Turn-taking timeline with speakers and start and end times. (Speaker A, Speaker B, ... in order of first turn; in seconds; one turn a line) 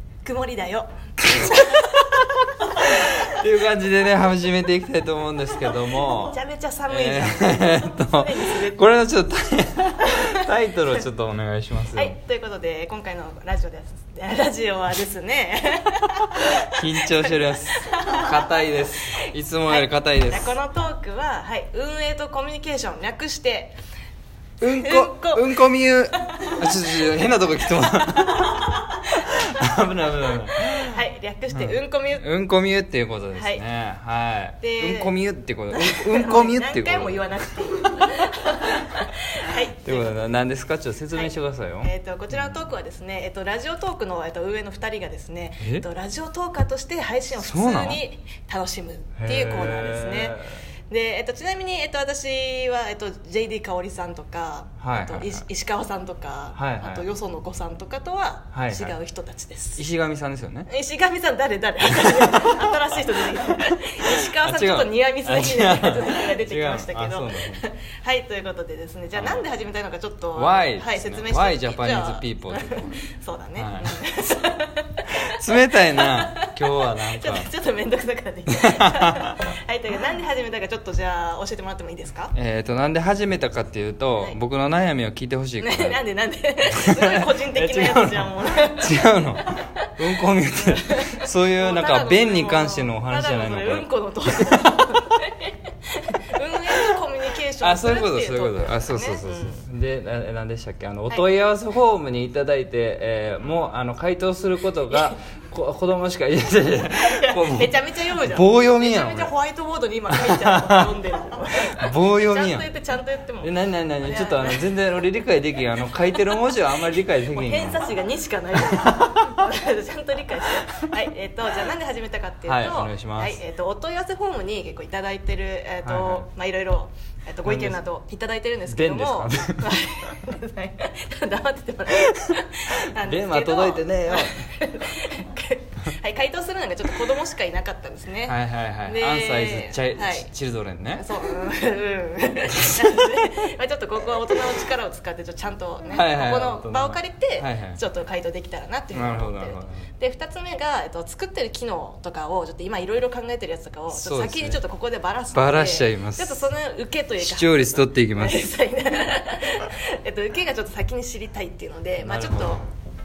Speaker A: 0.2-3.2
Speaker B: 2.8-6.3
Speaker A: 6.0-8.9
Speaker B: 6.9-12.2
Speaker A: 10.0-10.3
Speaker A: 11.9-18.5
Speaker B: 16.7-20.6
Speaker A: 19.1-23.8
Speaker B: 24.6-31.0
Speaker A: 24.6-25.7
Speaker A: 26.2-27.0
Speaker A: 28.2-29.7
Speaker A: 30.8-32.2
Speaker B: 31.5-37.5
Speaker A: 33.3-33.6
Speaker A: 34.6-35.1
Speaker A: 35.7-40.4
Speaker B: 39.8-42.6
Speaker A: 41.8-59.8
Speaker B: 47.4-48.0
Speaker B: 49.2-50.5
Speaker B: 54.8-55.4
Speaker B: 56.5-57.1
Speaker B: 58.5-59.0
Speaker B: 59.8-60.7
Speaker A: 60.7-76.5
Speaker B: 62.0-62.9
Speaker B: 64.0-67.6
Speaker B: 69.1-69.5
Speaker B: 70.3-73.0
Speaker B: 73.5-74.0
Speaker B: 75.3-77.5
Speaker A: 77.0-82.3
Speaker B: 78.5-79.5
Speaker B: 82.3-86.0
Speaker A: 85.6-89.9
Speaker B: 86.7-94.9
Speaker A: 90.6-99.6
Speaker B: 97.6-109.3
Speaker A: 104.9-105.2
Speaker A: 106.9-114.7
Speaker B: 110.1-110.9
Speaker B: 111.7-112.7
Speaker B: 113.4-117.8
Speaker A: 117.3-140.3
Speaker B: 118.6-119.4
Speaker B: 122.5-123.4
Speaker B: 125.8-126.2
Speaker B: 127.4-127.8
Speaker B: 128.7-129.8
Speaker B: 132.1-134.5
Speaker B: 138.2-141.3
Speaker A: 140.9-162.6
Speaker B: 142.6-143.2
Speaker B: 145.8-147.8
Speaker B: 148.9-149.8
Speaker B: 153.9-154.6
Speaker B: 155.3-156.5
Speaker B: 157.2-158.5
Speaker B: 162.0-162.6